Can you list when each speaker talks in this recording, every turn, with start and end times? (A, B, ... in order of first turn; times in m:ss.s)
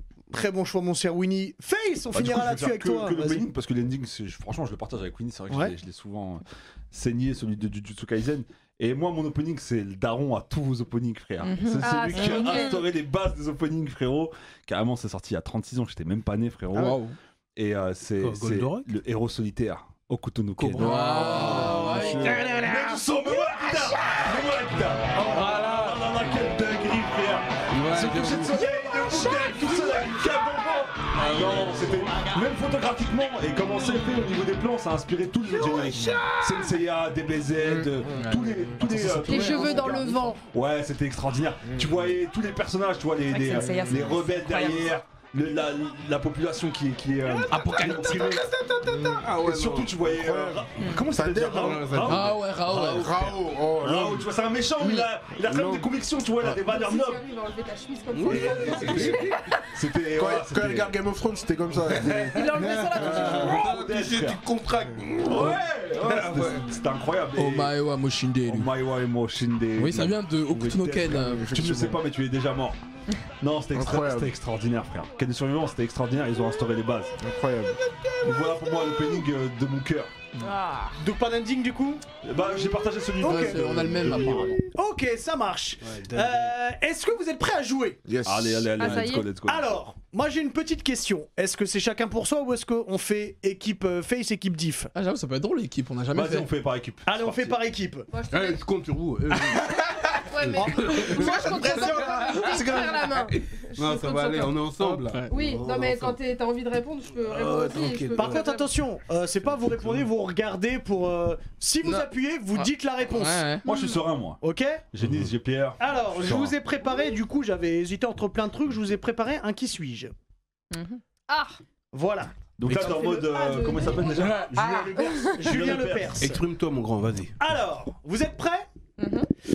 0:00.3-0:03.5 A
0:02.1-0:17.0 B
0:05.5-0:05.8 A
0:11.4-0:12.8 C
0:11.8-0:12.9 D
0:16.7-0:17.2 E
0:17.6-0:48.4 B
0:18.2-0:18.9 F
0:20.6-0:22.5 F
0:20.8-0:22.9 E
0:25.3-0:26.0 E
0:27.7-0:28.7 F
0:37.6-0:39.2 G
0:38.9-0:40.3 E
0:39.2-0:40.4 D
0:41.6-0:42.2 G
0:43.3-0:45.0 C
0:47.4-0:50.0 F
0:47.5-0:48.4 E
0:48.8-0:49.3 G
0:49.3-0:57.2 B
0:50.0-0:52.1 G
0:51.4-0:52.3 F
0:52.1-0:53.2 E
0:52.8-0:55.9 G
0:56.6-0:59.5 D
0:58.1-0:59.6 F
0:58.3-1:00.9 B
1:00.1-1:03.6 G
1:01.8-1:06.7 F
1:02.3-1:03.7 D
1:03.0-1:04.4 B
1:05.2-1:07.8 B
1:07.4-1:08.7 E
1:08.4-1:12.8 B
1:09.8-1:11.5 E
1:11.1-1:12.0 G
1:13.4-1:17.1 B
1:13.7-1:14.3 G
1:17.2-1:17.8 G
1:17.8-1:18.8 F
1:18.2-1:20.1 B
1:20.4-1:21.0 D
1:21.0-1:22.0 A
1:22.2-1:24.6 B
1:23.2-1:28.0 A
1:23.2-1:24.6 E
1:25.8-1:26.5 F
1:28.1-1:29.0 G
1:28.2-1:29.7 B
1:28.8-1:29.3 D
1:29.4-1:34.9 A
1:34.9-1:36.5 E
1:36.1-1:37.6 B
1:37.0-1:38.1 A
1:38.1-1:38.7 D
1:38.3-1:39.7 F
1:40.1-1:48.7 D
1:40.4-1:46.2 F
1:40.5-1:41.7 A
1:41.5-1:42.6 G
1:44.9-1:45.3 E
1:47.2-1:48.4 F
1:48.2-1:53.5 A
1:51.8-1:53.7 E
1:53.7-1:54.0 C
1:53.7-1:54.4 B
1:54.4-1:54.9 A
1:54.9-1:56.6 B
1:55.8-2:00.1 A
2:00.7-2:01.0 C
2:01.3-2:01.6 D
2:01.9-2:03.7 A
2:02.6-2:04.9 B
2:02.9-2:04.3 D
2:04.5-2:05.0 C
2:04.5-2:06.4 A
2:05.0-2:05.4 D
2:05.4-2:06.3 B
2:06.2-2:07.3 F
2:07.4-2:08.7 A
2:09.0-2:09.3 C